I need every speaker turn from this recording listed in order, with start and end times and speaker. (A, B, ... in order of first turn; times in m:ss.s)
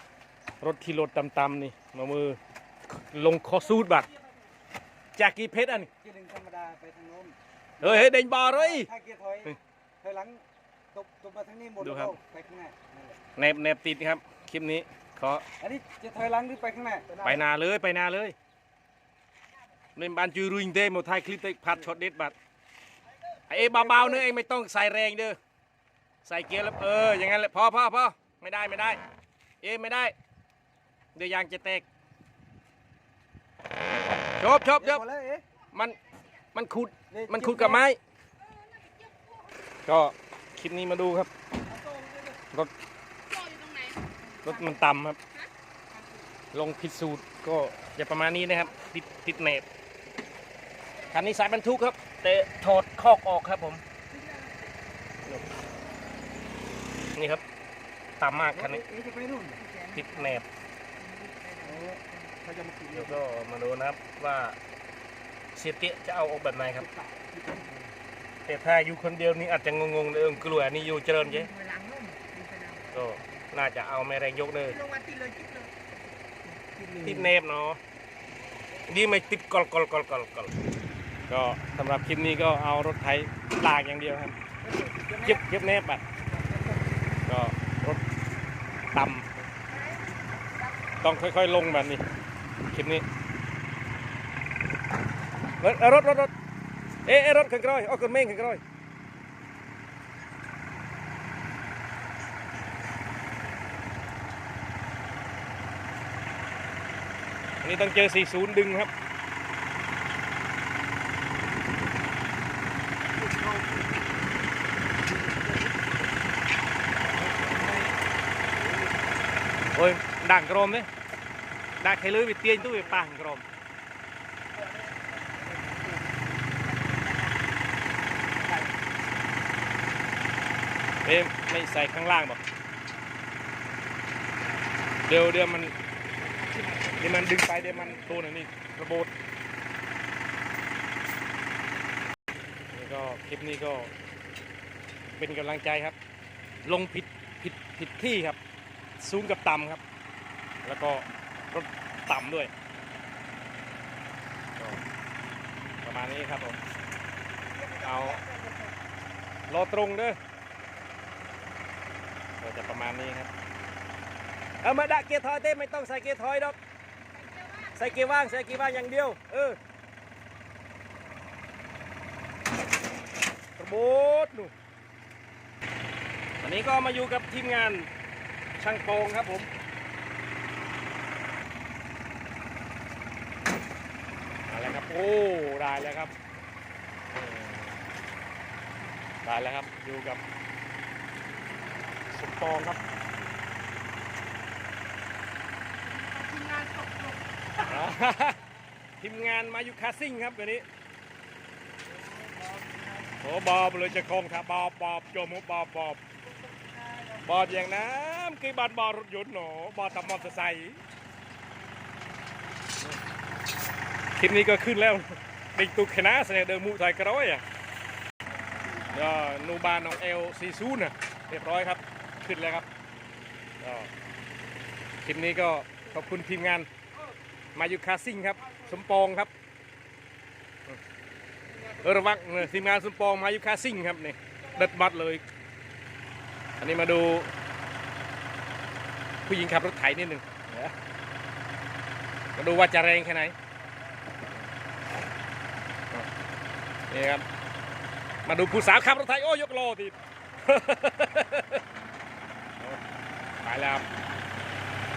0:00.6-0:02.4 A
0:03.0-0:04.1 A
0:05.2-0:05.9 A
0:05.8-0:10.4 B
0:07.8-0:08.9 A
0:10.9-0:13.2 B
0:11.8-0:12.2 A
0:13.4-0:15.4 A
0:15.6-0:17.4 B
0:17.2-0:18.4 A
0:20.0-0:22.4 A
0:23.5-0:25.4 A
0:23.7-0:24.2 B
0:26.2-0:29.0 A
0:29.6-0:30.1 A
0:31.2-0:31.8 A
0:34.4-0:35.0 A
0:34.8-0:35.4 B
0:35.7-0:36.0 A
0:36.5-0:38.0 A
0:37.1-0:37.8 B
0:38.6-0:39.4 C
0:39.8-0:41.3 A
0:41.7-0:42.4 B
0:43.3-0:44.8 C
0:44.4-0:45.2 A
0:46.5-0:49.7 A
0:51.1-0:53.8 A
0:57.2-0:57.4 A
0:58.2-0:58.8 A
0:58.5-0:59.6 B
0:59.6-1:00.4 C
0:59.9-1:00.4 A
1:01.0-1:02.4 C
1:01.6-1:03.2 B
1:02.9-1:04.6 A
1:05.6-1:06.9 A
1:06.8-1:07.9 B
1:08.4-1:11.5 A
1:11.2-1:13.1 C
1:12.9-1:14.8 A
1:14.7-1:15.9 C
1:16.4-1:17.3 C
1:17.0-1:17.8 A
1:18.9-1:20.5 A
1:21.3-1:24.4 A
1:24.6-1:25.4 B
1:25.2-1:26.0 A
1:26.3-1:27.0 B
1:27.3-1:28.0 A
1:28.9-1:29.3 A
1:29.7-1:30.1 C
1:31.0-1:32.0 A
1:32.7-1:33.0 A
1:35.6-1:36.3 A
1:37.0-1:38.6 A
1:47.6-1:48.9 A
1:57.3-1:57.9 A
1:59.7-2:00.9 A
2:01.8-2:03.4 A
2:05.3-2:06.3 B
2:11.0-2:12.4 A
2:15.0-2:15.7 A
2:17.0-2:19.1 A
2:22.7-2:23.9 A
2:25.2-2:26.0 A
2:26.6-2:28.4 A
2:29.0-2:29.8 A
2:30.6-2:32.5 A
2:35.8-2:36.6 A
2:37.6-2:38.7 C
2:37.8-2:38.2 A
2:39.5-2:40.2 A
2:42.4-2:43.3 A
2:44.6-2:46.6 A
2:47.2-2:47.7 C
2:47.7-2:49.6 A
2:53.6-2:54.5 A
2:56.4-2:57.9 A
2:58.6-2:59.5 A
3:04.5-3:06.1 A
3:07.1-3:07.8 A
3:09.2-3:10.2 A
3:12.1-3:12.8 A
3:15.9-3:17.1 C
3:16.4-3:17.0 B
3:17.6-3:18.4 A
3:19.0-3:20.6 A
3:22.0-3:23.2 B
3:23.2-3:26.0 A
3:26.4-3:27.6 B
3:27.2-3:30.8 A
3:34.2-3:37.4 A
3:38.8-3:42.7 A
3:43.6-3:43.9 A
3:45.0-3:46.7 A
3:47.6-3:49.3 A
3:51.7-3:55.2 A
3:56.6-3:57.3 A
3:59.3-4:00.7 A
4:02.4-4:03.4 A
4:06.9-4:07.2 A
4:08.3-4:11.6 A
4:13.4-4:13.8 A